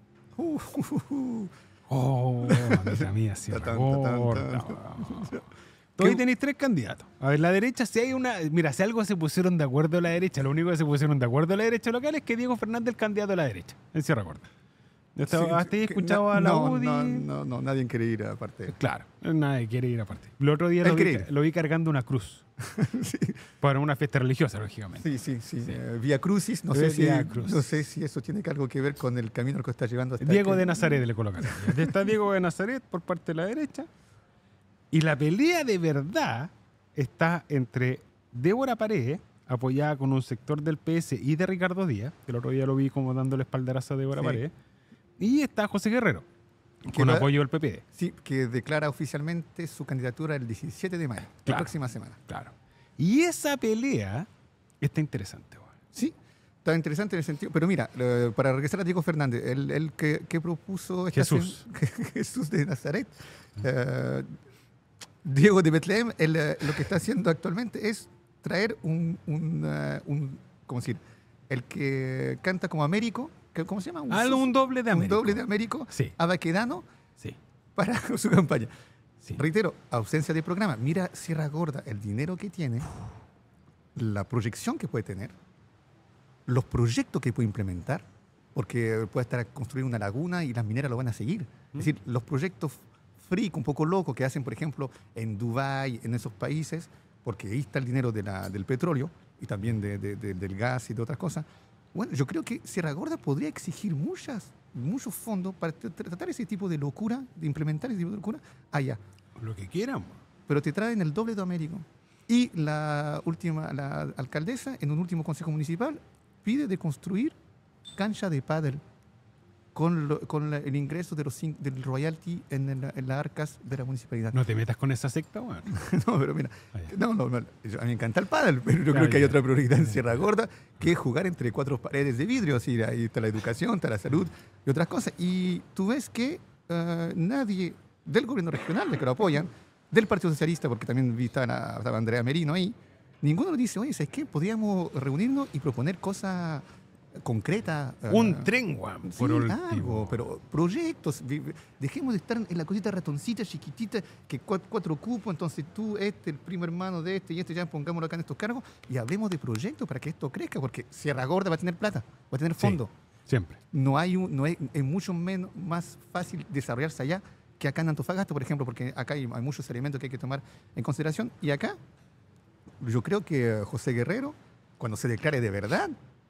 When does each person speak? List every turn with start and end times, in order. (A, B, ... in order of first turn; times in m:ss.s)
0:00.4-0:01.5 A
0:01.9-0:05.4 B
0:02.4-0:05.4 A
0:06.0-0:14.5 B
0:15.1-0:17.3 B
0:15.3-0:18.8 A
0:18.7-0:22.4 B
0:20.8-0:21.3 A
0:22.7-0:23.4 A
0:23.6-0:25.1 B
0:25.0-0:31.9 A
0:26.7-0:27.8 B
0:30.2-0:33.9 B
0:34.9-0:44.5 B
0:44.1-0:44.4 A
0:45.2-0:46.2 B
0:46.8-0:47.8 B
0:46.9-0:47.3 A
0:47.9-0:52.2 A
0:51.3-0:51.7 B
0:52.3-0:54.3 B
0:54.8-0:55.7 B
0:55.9-1:04.3 A
1:01.1-1:01.6 B
1:05.2-1:16.8 A
1:14.1-1:16.1 B
1:17.8-1:18.7 A
1:19.4-1:22.9 A
1:24.0-1:25.3 A
1:26.5-1:28.0 A
1:28.5-1:49.0 A
1:49.4-1:50.2 B
1:50.5-1:57.3 A
1:57.9-1:58.8 A
1:59.7-2:04.5 A
2:04.3-2:05.8 B
2:05.7-2:26.6 A
2:08.9-2:09.4 B
2:27.2-2:42.9 A
2:28.1-2:30.2 B
2:42.6-2:43.6 B
2:43.7-2:51.8 A
2:52.8-2:55.9 A